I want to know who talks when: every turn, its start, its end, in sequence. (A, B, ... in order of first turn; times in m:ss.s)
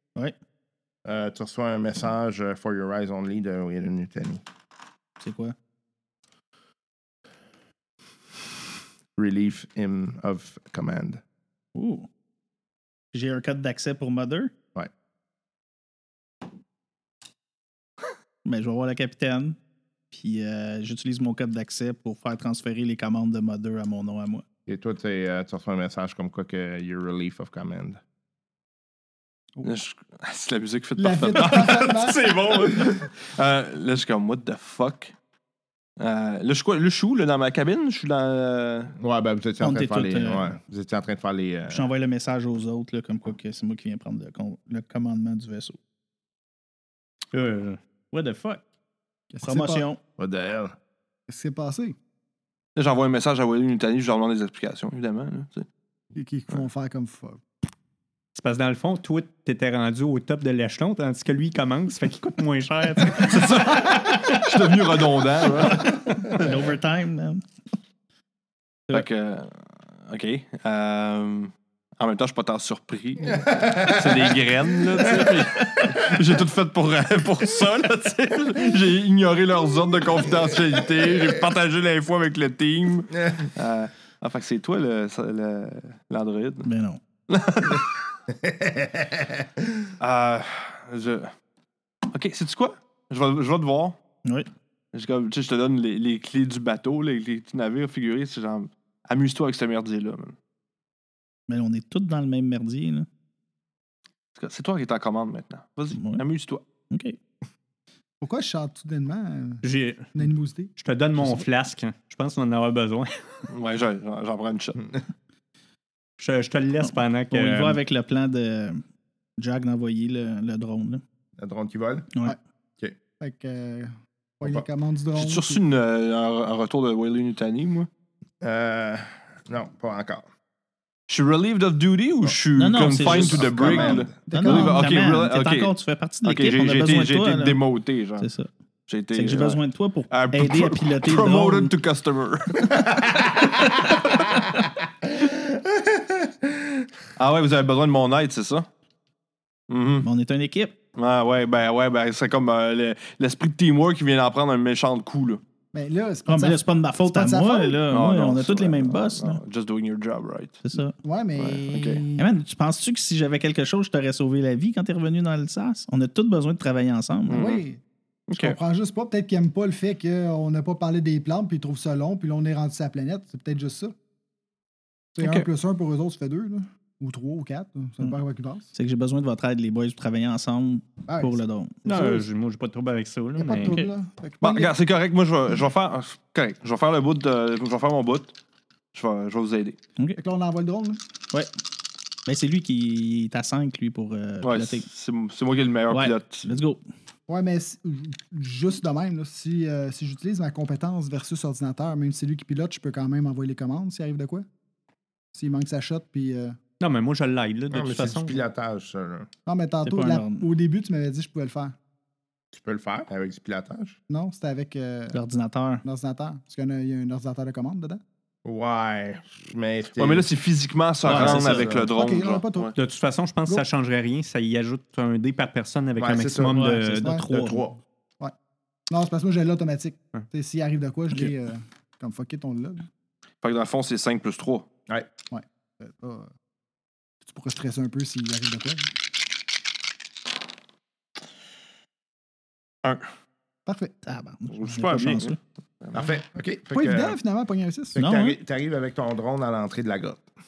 0:01.0-0:04.4 A
0:05.2-0:05.5 B
0:09.2-0:11.2 A
0:11.7-0:12.1 B
0:13.1-0:14.5 B
0:18.4-0:19.6 B
0:20.1-0:24.4 B
0:24.7-0:28.0 A
0:29.6-0:35.1 C
0:31.0-0:32.2 D
0:36.0-0:38.9 C
0:39.0-0:41.9 A
0:39.6-0:40.5 B
0:41.7-0:45.8 B
0:47.3-0:48.6 E
0:49.3-0:49.9 D
0:49.4-0:50.0 B
0:50.2-0:50.7 A
0:51.3-0:52.0 D
0:52.8-0:55.6 C
0:56.1-0:57.4 D
0:58.3-1:04.5 E
1:03.2-1:06.3 C
1:06.3-1:07.4 B
1:08.9-1:26.7 C
1:13.4-1:14.4 A
1:26.6-1:27.0 B
1:27.3-1:27.9 C
1:28.4-1:29.6 A
1:30.0-1:31.3 C
1:32.1-1:34.0 C
1:34.9-1:40.4 C
1:41.5-1:43.1 B
1:44.4-1:46.6 C
1:46.0-1:46.2 B
1:46.9-1:47.2 B
1:48.2-1:49.6 D
1:49.6-1:50.2 E
1:50.1-1:50.7 D
1:50.8-1:53.5 E
1:53.5-1:54.8 C
1:56.2-1:57.8 E
1:57.3-1:58.8 B
1:59.4-2:01.0 B
2:01.4-2:02.1 A
2:03.2-2:05.6 D
2:04.4-2:04.7 A
2:05.1-2:07.9 C
2:08.4-2:10.3 A
2:11.1-2:15.7 C
2:12.5-2:17.6 B
2:13.0-2:14.2 A
2:14.3-2:14.8 D
2:16.2-2:18.3 C
2:18.2-2:18.5 B
2:18.9-2:19.6 C
2:19.1-2:21.7 B
2:20.1-2:22.8 C
2:22.8-2:24.0 A
2:25.0-2:26.8 A
2:27.2-2:28.7 C
2:29.7-2:30.0 C
2:30.0-2:30.7 B
2:31.0-2:35.4 C
2:35.7-2:37.8 D
2:36.3-2:39.4 B
2:37.9-2:40.6 C
2:40.6-2:41.0 B
2:41.0-2:42.3 D
2:41.4-2:42.0 C
2:42.2-2:47.5 B
2:47.3-2:47.6 C
2:47.3-2:47.8 D
2:48.3-2:48.6 C
2:48.3-2:53.9 D
2:55.2-2:58.7 D
2:55.2-2:55.5 C
2:58.7-3:01.7 B
3:01.1-3:02.2 D
3:01.8-3:03.8 E
3:03.4-3:04.7 D
3:03.6-3:03.9 B
3:04.4-3:08.3 C
3:08.9-3:09.8 C
3:10.2-3:11.0 D
3:12.2-3:14.9 B
3:14.4-3:16.5 C
3:15.9-3:16.8 B
3:17.3-3:24.5 D
3:25.3-3:26.6 D
3:26.8-3:28.4 E
3:27.7-3:29.3 A
3:29.4-3:31.8 D
3:29.8-3:30.5 B
3:32.5-3:34.0 A
3:34.1-3:35.2 D
3:35.1-3:35.8 B
3:35.8-3:38.0 D
3:38.4-3:40.2 A
3:40.0-3:42.7 C
3:41.0-3:41.7 B
3:41.1-3:41.9 A
3:41.9-3:42.7 D
3:42.7-3:47.1 E
3:46.0-3:46.6 A
3:46.5-3:47.7 B
3:47.3-3:47.8 A
3:48.9-3:52.9 D
3:53.4-3:54.6 C
3:55.3-3:56.3 D
3:57.2-3:58.9 D
4:03.6-4:04.0 D
4:04.0-4:05.4 B
4:04.5-4:06.0 C
4:05.9-4:07.2 A
4:06.7-4:08.0 D
4:07.9-4:10.2 A
4:08.0-4:08.4 B